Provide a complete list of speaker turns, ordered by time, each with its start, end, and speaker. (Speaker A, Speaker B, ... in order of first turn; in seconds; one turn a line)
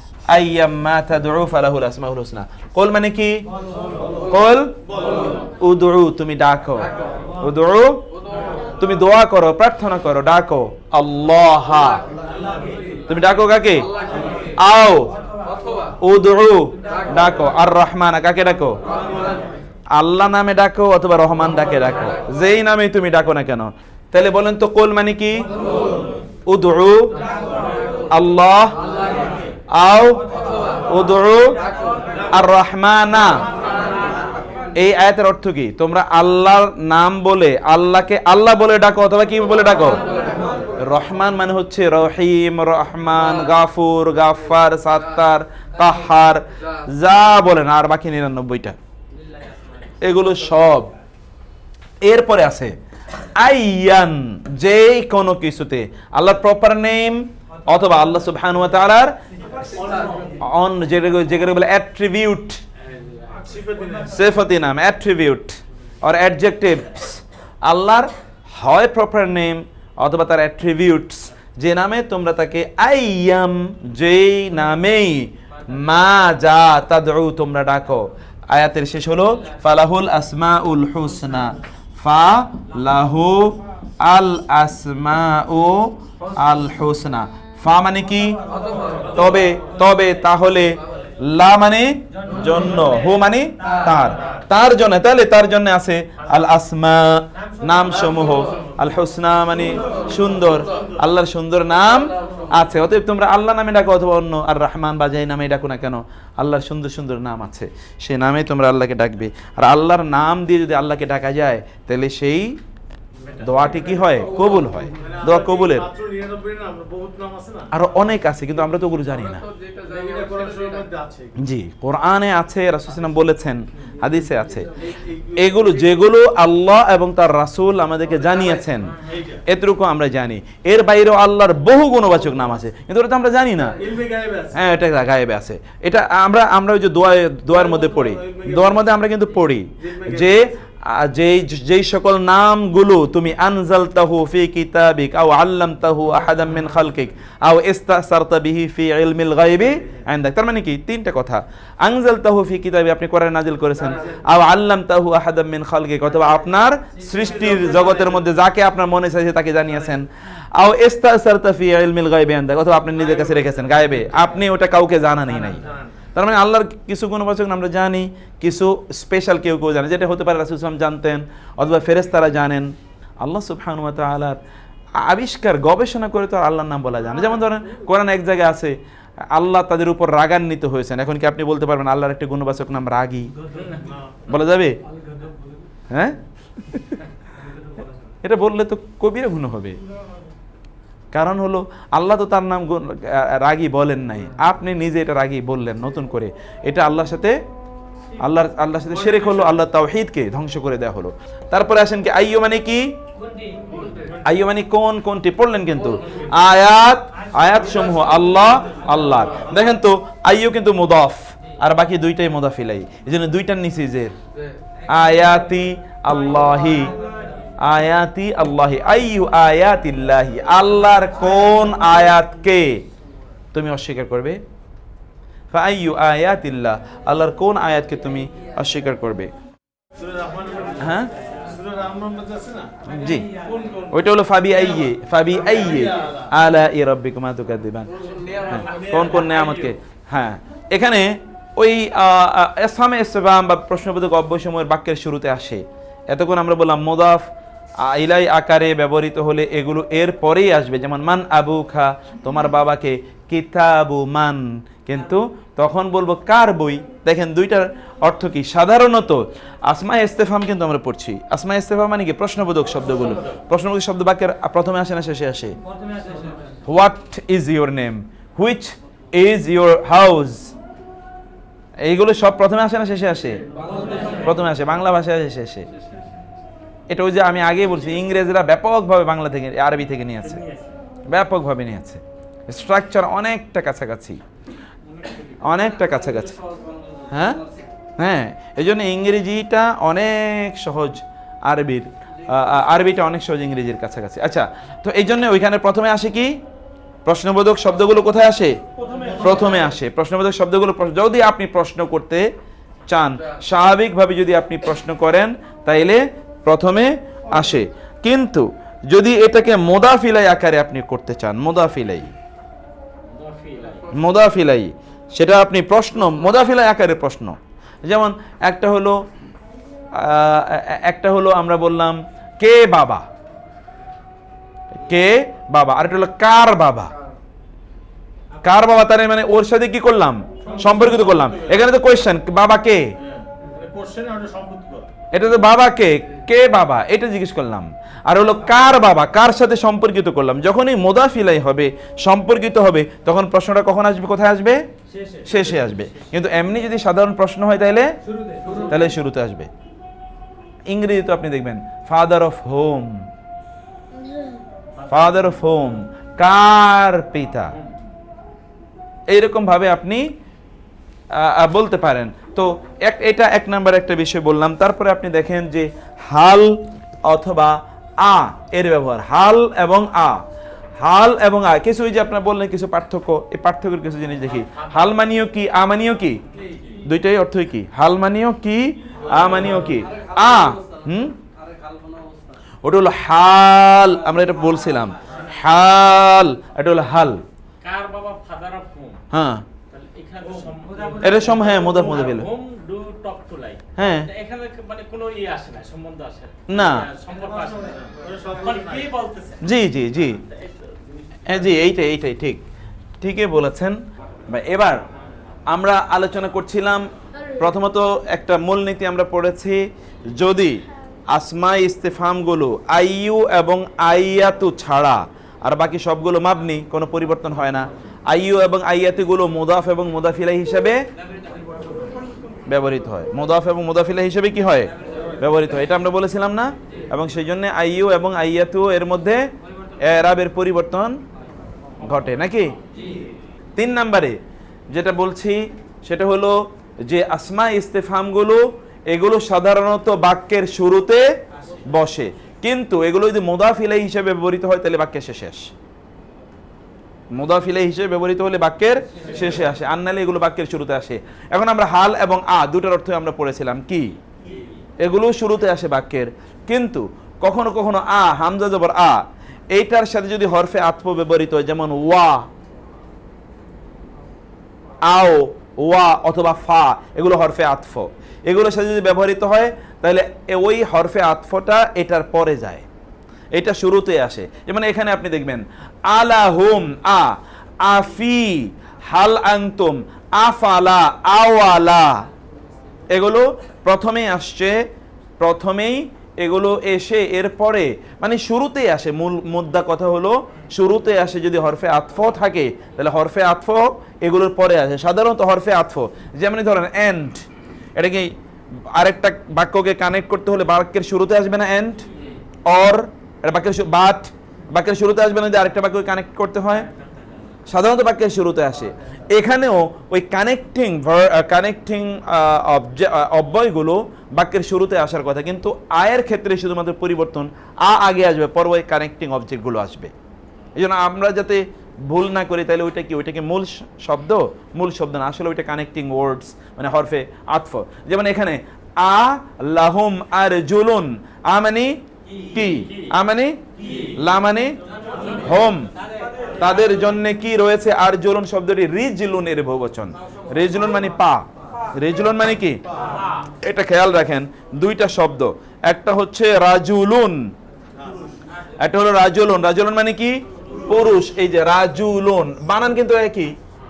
Speaker A: 0.3-3.4
Speaker A: 4.3-4.8
Speaker A: 5.6-8.0
Speaker A: 8.8-12.0
Speaker A: 13.1-13.9
Speaker A: 14.6-15.1
Speaker A: 16.0-18.8
Speaker A: 19.9-25.4
Speaker A: 26.5-27.1
Speaker A: 28.1-28.8
Speaker A: 29.7-30.2
Speaker A: 30.9-31.6
Speaker A: 32.3-33.4
Speaker A: 34.8-40.0
Speaker A: 40.8-48.8
Speaker B: 49.4-49.8
Speaker A: 50.0-50.9
Speaker A: 52.0-52.7
Speaker A: 53.4-59.2
Speaker A: 60.2-62.6
Speaker B: 62.9-63.8
Speaker A: 64.1-88.4
Speaker A: 89.1-112.6
Speaker A: 113.4-115.9
Speaker C: 116.0-117.6
Speaker A: 117.7-119.4
Speaker C: 120.2-121.2
Speaker A: 121.4-124.7
Speaker A: 125.3-133.8
Speaker C: 134.1-134.4
Speaker A: 134.5-174.4
Speaker A: 175.0-178.7
Speaker A: 179.3-183.3
Speaker B: 183.5-183.9
Speaker A: 184.3-184.8
Speaker A: 185.9-186.8
Speaker A: 188.2-189.8
Speaker A: 191.1-197.4
Speaker A: 198.2-202.9
Speaker A: 204.2-214.1
Speaker A: 214.9-216.9
Speaker A: 217.6-222.8
Speaker A: 223.5-224.4
Speaker A: 225.5-229.3
Speaker A: 230.8-231.1
Speaker C: 231.8-232.7
Speaker A: 232.8-233.3
Speaker A: 233.9-237.9
Speaker A: 238.4-247.3
Speaker B: 238.5-239.4
Speaker A: 247.8-265.6
Speaker A: 266.6-270.5
Speaker A: 271.8-273.4
Speaker A: 274.2-275.7
Speaker A: 276.9-280.4
Speaker B: 280.2-280.7
Speaker A: 281.1-284.2
Speaker B: 285.0-285.4
Speaker A: 285.4-286.4
Speaker A: 287.1-287.4
Speaker A: 288.0-296.4
Speaker A: 297.1-298.6
Speaker B: 298.9-299.2
Speaker A: 299.2-302.3
Speaker A: 302.9-312.1
Speaker B: 313.0-313.9
Speaker A: 313.9-319.0
Speaker A: 319.9-323.1
Speaker A: 324.7-326.9
Speaker A: 328.4-332.9
Speaker B: 333.5-334.8
Speaker A: 335.1-344.6
Speaker B: 344.9-346.0
Speaker A: 345.2-347.9
Speaker A: 348.7-349.5
Speaker A: 350.7-353.0
Speaker A: 354.9-357.5
Speaker A: 359.1-360.1
Speaker A: 361.1-370.2
Speaker A: 370.8-376.2
Speaker A: 376.9-381.1
Speaker A: 382.6-387.2
Speaker B: 387.6-389.0
Speaker A: 389.1-389.4
Speaker B: 389.7-399.4
Speaker A: 391.0-392.3
Speaker A: 393.8-394.1
Speaker A: 396.5-396.9
Speaker A: 399.4-400.2
Speaker B: 400.3-401.2
Speaker A: 401.3-402.4
Speaker A: 403.0-403.8
Speaker A: 404.3-404.8
Speaker A: 405.5-409.6
Speaker A: 410.1-420.9
Speaker A: 422.5-429.2
Speaker A: 429.8-431.0
Speaker A: 431.8-432.6
Speaker A: 433.6-434.2
Speaker A: 434.7-441.1
Speaker A: 441.6-445.5
Speaker A: 447.1-453.9
Speaker A: 454.8-462.3
Speaker A: 464.9-472.6
Speaker A: 473.3-482.0
Speaker A: 482.9-484.6
Speaker A: 485.2-497.2
Speaker A: 497.8-498.1
Speaker A: 498.7-501.8
Speaker A: 502.5-506.7
Speaker B: 506.8-507.2
Speaker A: 507.5-519.9
Speaker A: 520.5-531.7
Speaker A: 532.3-533.4
Speaker A: 534.0-534.6
Speaker A: 535.1-535.7
Speaker A: 536.4-542.6
Speaker A: 543.4-547.3
Speaker A: 548.6-553.3